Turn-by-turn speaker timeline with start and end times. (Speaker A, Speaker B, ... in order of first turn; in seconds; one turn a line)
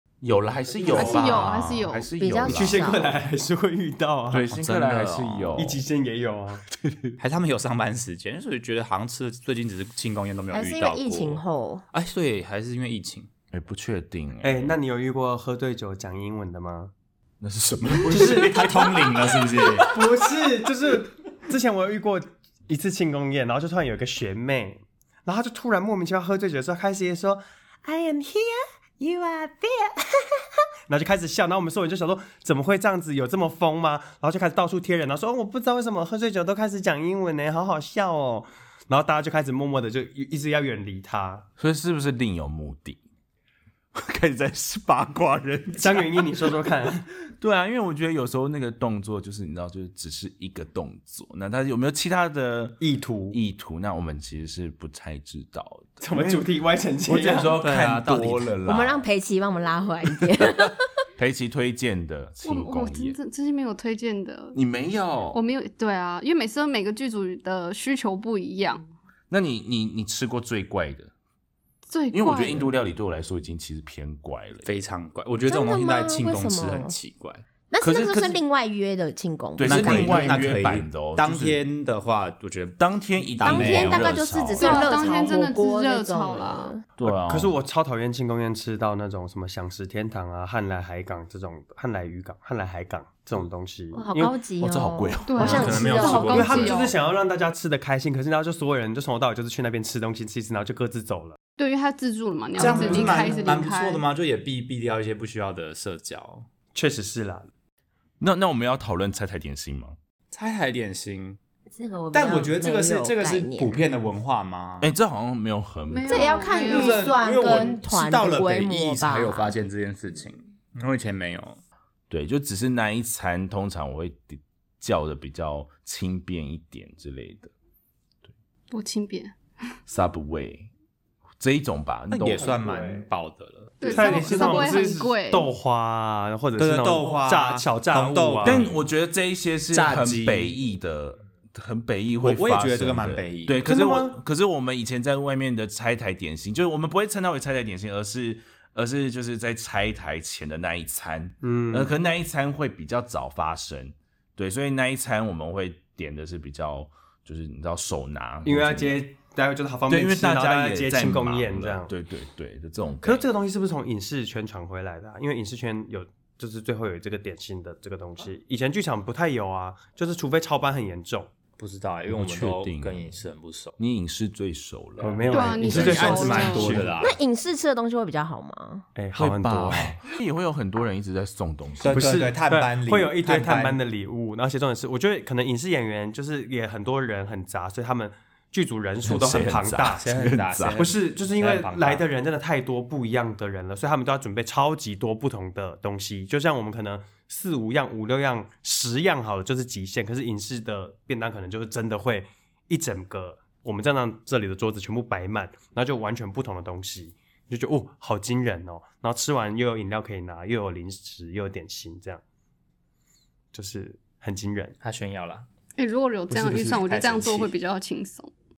Speaker A: 0.2-3.1
Speaker B: 0.9-2.1
Speaker C: 2.2-3.1
Speaker D: 2.4-4.5
Speaker A: 4.3-5.8
Speaker E: 4.5-5.5
Speaker D: 5.6-6.6
Speaker A: 6.8-7.2
Speaker E: 7.2-13.3
Speaker C: 10.5-11.8
Speaker A: 13.5-14.8
Speaker D: 14.4-16.9
Speaker A: 17.4-19.8
Speaker E: 17.9-19.9
Speaker D: 18.1-18.7
Speaker D: 19.8-41.5
Speaker A: 41.6-43.0
Speaker A: 43.9-46.3
Speaker D: 45.8-47.1
Speaker A: 47.3-56.4
Speaker D: 52.8-53.4
Speaker D: 56.0-57.6
Speaker A: 57.1-59.0
Speaker E: 57.6-58.5
Speaker C: 58.6-60.9
Speaker A: 61.2-63.2
Speaker B: 62.5-64.6
Speaker A: 64.5-65.4
Speaker B: 65.3-68.8
Speaker A: 69.3-71.1
Speaker B: 71.9-72.7
Speaker A: 72.1-74.7
Speaker E: 74.7-77.5
Speaker C: 75.5-76.9
Speaker C: 77.7-80.4
Speaker A: 77.8-78.4
Speaker A: 79.6-81.6
Speaker E: 79.6-84.2
Speaker A: 82.8-85.0
Speaker C: 83.4-86.8
Speaker B: 84.6-86.8
Speaker A: 87.0-87.5
Speaker D: 87.0-94.4
Speaker C: 93.9-96.4
Speaker A: 94.6-96.6
Speaker B: 95.3-97.0
Speaker E: 95.4-96.9
Speaker D: 95.6-101.4
Speaker B: 101.6-104.0
Speaker E: 102.6-106.5
Speaker C: 102.6-103.5
Speaker D: 102.7-103.1
Speaker D: 106.8-107.5
Speaker A: 108.2-110.0
Speaker E: 110.3-111.4
Speaker C: 111.7-113.8
Speaker E: 112.1-114.9
Speaker A: 114.8-116.5
Speaker B: 115.9-117.7
Speaker C: 116.1-119.6
Speaker E: 116.5-121.6
Speaker A: 122.1-127.5
Speaker B: 128.7-129.4
Speaker A: 129.9-130.7
Speaker A: 131.4-132.5
Speaker E: 132.1-134.8
Speaker D: 132.4-133.1
Speaker B: 133.8-135.5
Speaker D: 133.9-138.7
Speaker E: 136.6-138.8
Speaker A: 138.4-158.9
Speaker E: 139.7-140.6
Speaker E: 142.2-143.6
Speaker D: 143.7-144.2
Speaker D: 151.4-151.9
Speaker D: 158.4-161.9
Speaker A: 159.9-163.3
Speaker D: 163.0-171.3
Speaker E: 171.6-173.8
Speaker A: 172.1-173.2
Speaker A: 173.8-176.9
Speaker D: 175.0-176.9
Speaker B: 175.3-176.8
Speaker E: 175.7-177.2
Speaker C: 177.0-178.9
Speaker D: 179.0-179.9
Speaker A: 179.2-182.3
Speaker E: 181.8-183.8
Speaker D: 181.8-190.0
Speaker A: 189.0-190.9
Speaker E: 190.0-192.0
Speaker D: 190.8-212.2
Speaker D: 213.5-214.8
Speaker E: 214.8-215.5
Speaker B: 215.8-218.3
Speaker E: 216.3-217.5